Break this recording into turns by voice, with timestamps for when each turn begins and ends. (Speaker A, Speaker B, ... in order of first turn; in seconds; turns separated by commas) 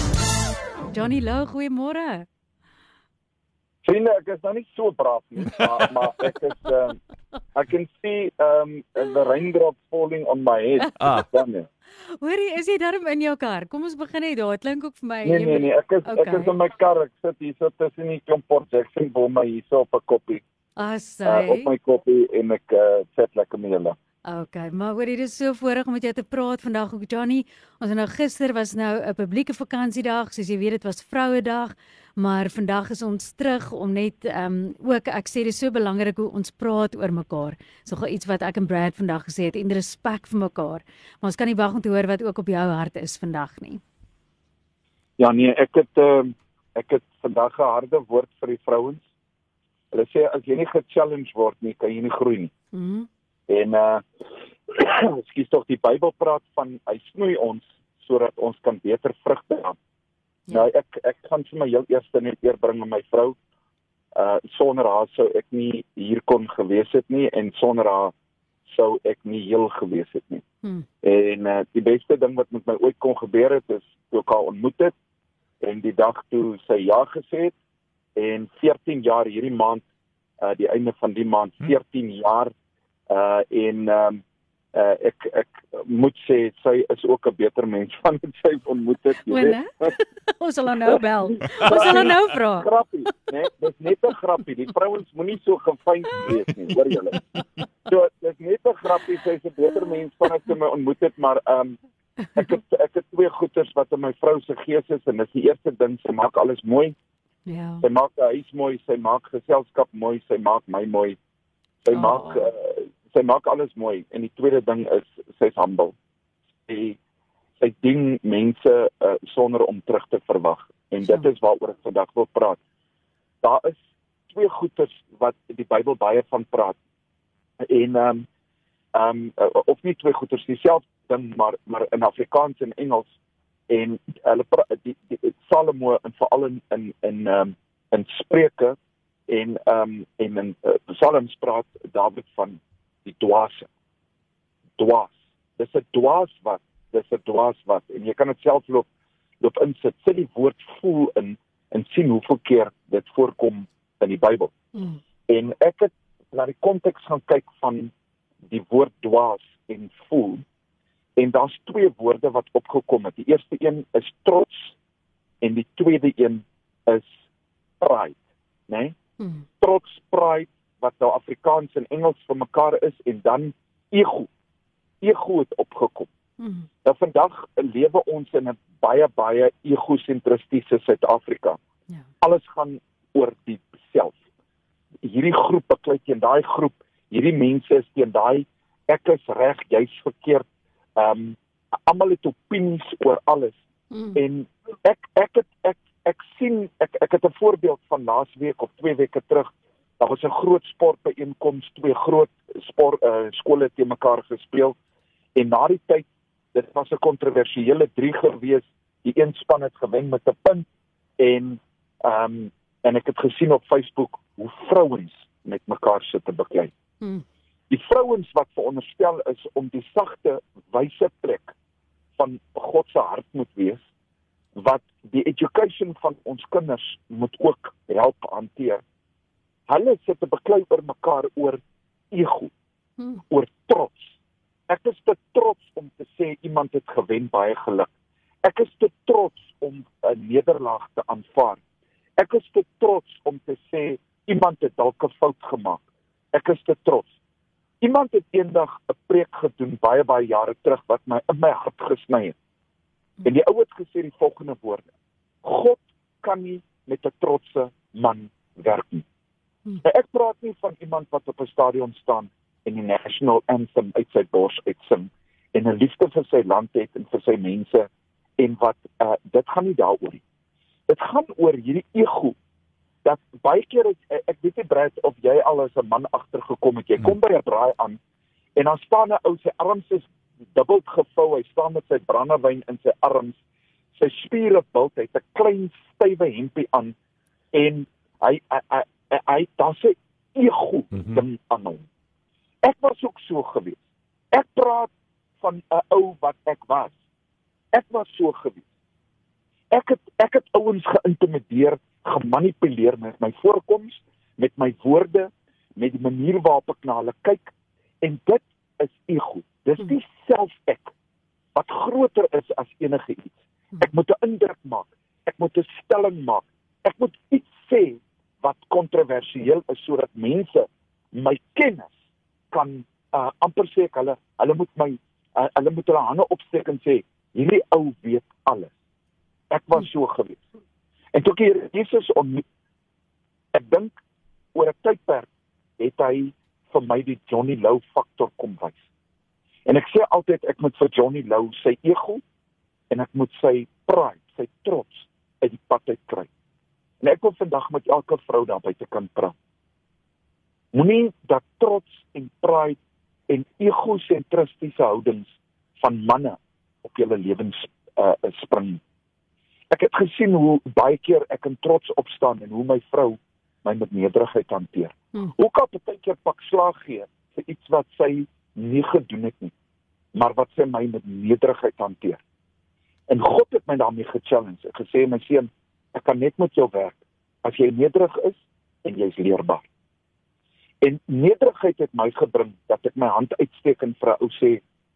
Speaker A: 0.9-2.3, Speaker B: 3.8-7.0, Speaker B: 7.5-11.7, Speaker A: 10.9-11.3, Speaker A: 12.2-16.5, Speaker B: 15.2-20.4, Speaker A: 20.8-21.7, Speaker B: 21.3-24.0, Speaker A: 24.3-43.8, Speaker B: 45.2-49.0, Speaker B: 49.9-52.5, Speaker A: 52.7-53.1, Speaker B: 53.5-54.0, Speaker B: 54.7-59.8, Speaker B: 60.5-63.4, Speaker B: 64.2-68.1, Speaker B: 68.7-70.4, Speaker B: 71.0-74.9, Speaker B: 75.6-77.5, Speaker B: 78.2-79.8, Speaker B: 80.4-82.5, Speaker B: 83.1-89.9, Speaker A: 89.2-92.7, Speaker B: 90.9-97.2, Speaker B: 97.9-101.8, Speaker B: 102.4-107.0, Speaker A: 107.5-107.8, Speaker B: 107.8-111.2, Speaker B: 111.8-116.0, Speaker A: 111.9-112.5, Speaker B: 116.7-117.0, Speaker B: 117.6-122.6, Speaker A: 121.0-121.3, Speaker B: 123.4-126.8, Speaker B: 127.6-128.3, Speaker B: 128.9-133.1, Speaker B: 133.7-138.8, Speaker B: 139.3-143.7, Speaker B: 144.8-148.9, Speaker B: 149.4-154.5, Speaker A: 154.8-155.0, Speaker B: 155.3-157.9, Speaker B: 158.5-160.4, Speaker B: 161.2-164.7, Speaker B: 165.4-167.1, Speaker B: 167.8-169.0, Speaker A: 169.2-169.4, Speaker B: 169.6-174.3, Speaker B: 175.0-176.1, Speaker A: 176.4-176.7, Speaker B: 176.8-181.6, Speaker B: 182.2-184.2, Speaker B: 185.0-193.6, Speaker A: 193.9-194.2, Speaker B: 194.1-204.8, Speaker B: 205.3-210.7, Speaker B: 211.2-216.7, Speaker B: 217.7-221.5, Speaker B: 222.2-223.8, Speaker B: 224.6-228.8, Speaker B: 229.7-232.5, Speaker B: 233.3-234.2, Speaker B: 234.7-237.9, Speaker B: 238.4-241.6, Speaker B: 242.2-247.1, Speaker B: 247.8-252.4, Speaker B: 253.2-254.9, Speaker B: 255.4-259.1, Speaker B: 259.8-270.2, Speaker B: 270.9-272.4, Speaker B: 273.0-278.0, Speaker B: 278.6-283.4, Speaker B: 284.0-286.9, Speaker B: 287.5-291.9, Speaker B: 292.6-293.8, Speaker B: 294.3-296.9, Speaker B: 297.7-298.6, Speaker B: 299.7-310.9, Speaker B: 311.5-321.9, Speaker B: 322.5-328.7, Speaker B: 329.5-330.4, Speaker B: 331.1-332.4, Speaker B: 333.5-333.9, Speaker B: 334.5-338.8, Speaker B: 339.7-342.2, Speaker B: 342.9-346.3, Speaker B: 347.0-349.4, Speaker B: 350.7-352.8, Speaker B: 353.3-358.8, Speaker B: 359.7-369.5, Speaker B: 370.1-372.2, Speaker B: 373.1-379.7, Speaker B: 380.8-384.6